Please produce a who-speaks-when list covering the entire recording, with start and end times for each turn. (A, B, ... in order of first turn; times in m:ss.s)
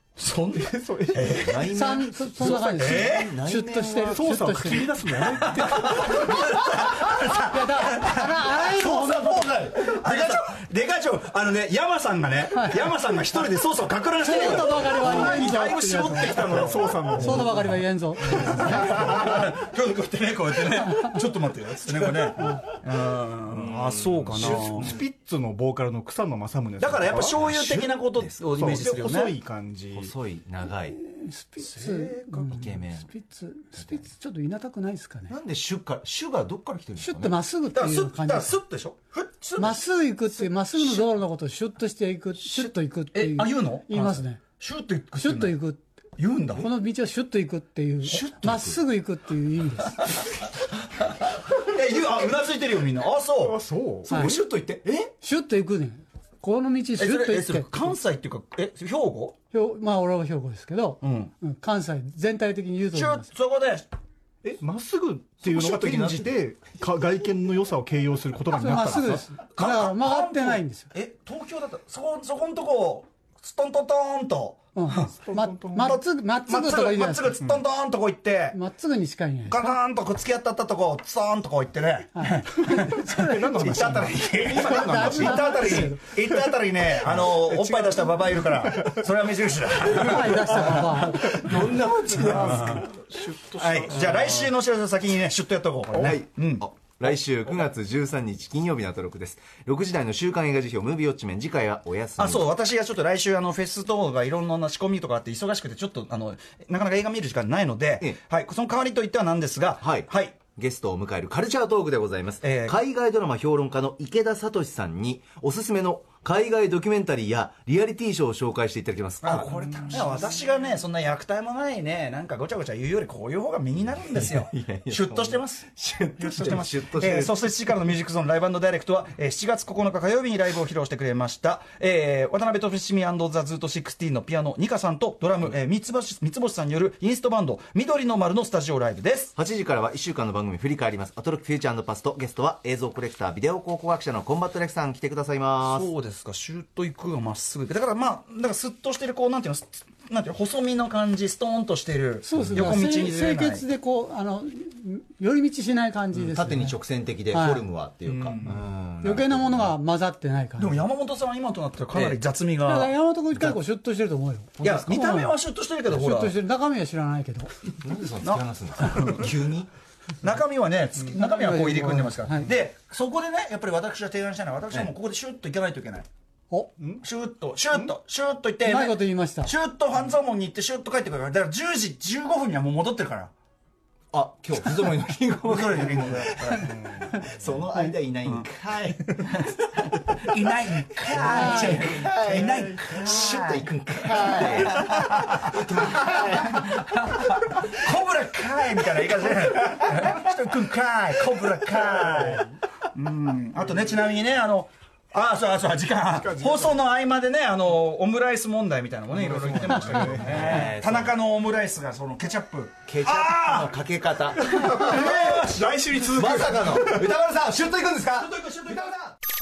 0:00.2-0:01.6 A
0:00.6-0:01.7 B
0:01.3-0:04.3 C
0:01.7-0:05.0 D
0:02.5-0:03.3 A
0:04.1-0:06.2 B
0:05.6-0:08.2 A
0:06.2-0:07.0 C
0:07.3-0:09.5 D
0:08.2-0:10.4 C
0:09.8-0:17.5 A
0:12.5-0:12.9 D
0:14.2-0:19.1 D
0:15.0-0:15.5 B
0:16.1-0:17.6 B
0:18.2-0:25.0 A
0:18.5-0:19.3 B
0:24.0-0:25.0 C
0:24.3-0:27.9 B
0:26.8-0:29.4 A
0:27.4-0:28.4 C
0:28.5-0:30.1 B
0:29.9-0:31.0 C
0:30.9-0:35.4 D
0:31.6-0:33.1 C
0:33.8-0:34.0 C
0:35.3-0:37.4 C
0:37.0-0:38.6 D
0:37.7-0:39.8 A
0:39.6-0:44.4 D
0:40.3-0:41.1 A
0:42.5-0:45.6 A
0:45.2-0:45.8 D
0:46.2-0:46.7 A
0:46.6-0:50.1 D
0:48.1-0:48.8 C
0:51.5-0:53.6 A
0:53.4-0:54.1 B
0:54.0-0:55.1 C
0:55.2-0:58.0 D
0:57.0-0:59.4 A
0:59.5-1:03.3 D
1:01.0-1:01.3 A
1:02.9-1:03.9 A
1:04.4-1:09.2 B
1:05.5-1:06.3 A
1:05.6-1:06.3 C
1:08.5-1:10.9 D
1:09.6-1:15.1 A
1:14.8-1:17.4 D
1:15.2-1:16.0 B
1:15.8-1:18.6 A
1:18.5-1:19.8 D
1:19.5-1:31.3 A
1:22.2-1:23.4 D
1:22.6-1:25.9 B
1:24.6-1:26.0 D
1:27.1-1:29.0 B
1:30.0-1:31.5 D
1:30.1-1:33.0 C
1:30.6-1:34.5 B
1:32.1-1:32.8 A
1:33.6-1:36.6 A
1:36.0-1:42.5 C
1:42.2-1:50.4 A
1:49.8-1:59.5 C
1:52.4-1:52.8 A
1:59.2-2:05.7 A
2:04.2-2:07.5 C
2:06.2-2:19.3 A
2:19.4-2:25.9 C
2:25.6-2:33.7 A
2:32.2-2:37.6 D
2:32.4-2:32.7 C
2:36.1-2:39.7 C
2:38.1-2:38.6 A
2:39.0-2:40.8 D
2:40.6-2:43.5 A
2:41.9-2:42.2 C
2:42.6-2:47.5 D
2:44.6-2:46.4 A
2:47.8-2:49.7 C
2:48.2-2:49.3 A
2:50.2-2:56.1 A
2:51.1-2:52.5 D
2:57.0-3:03.3 A
2:58.7-2:59.5 D
3:04.1-3:09.1 C
3:05.4-3:06.7 A
3:06.7-3:07.1 B
3:09.1-3:09.5 A
3:10.2-3:15.4 A
3:11.2-3:16.6 C
3:11.2-3:11.9 D
3:16.1-3:33.7 A
3:22.0-3:22.4 B
3:26.2-3:26.8 B
3:29.1-3:30.7 B
3:30.2-3:31.2 C
3:32.9-3:34.8 C
3:34.4-3:37.1 B
3:34.7-3:35.8 A
3:36.1-3:38.3 C
3:38.1-3:39.0 A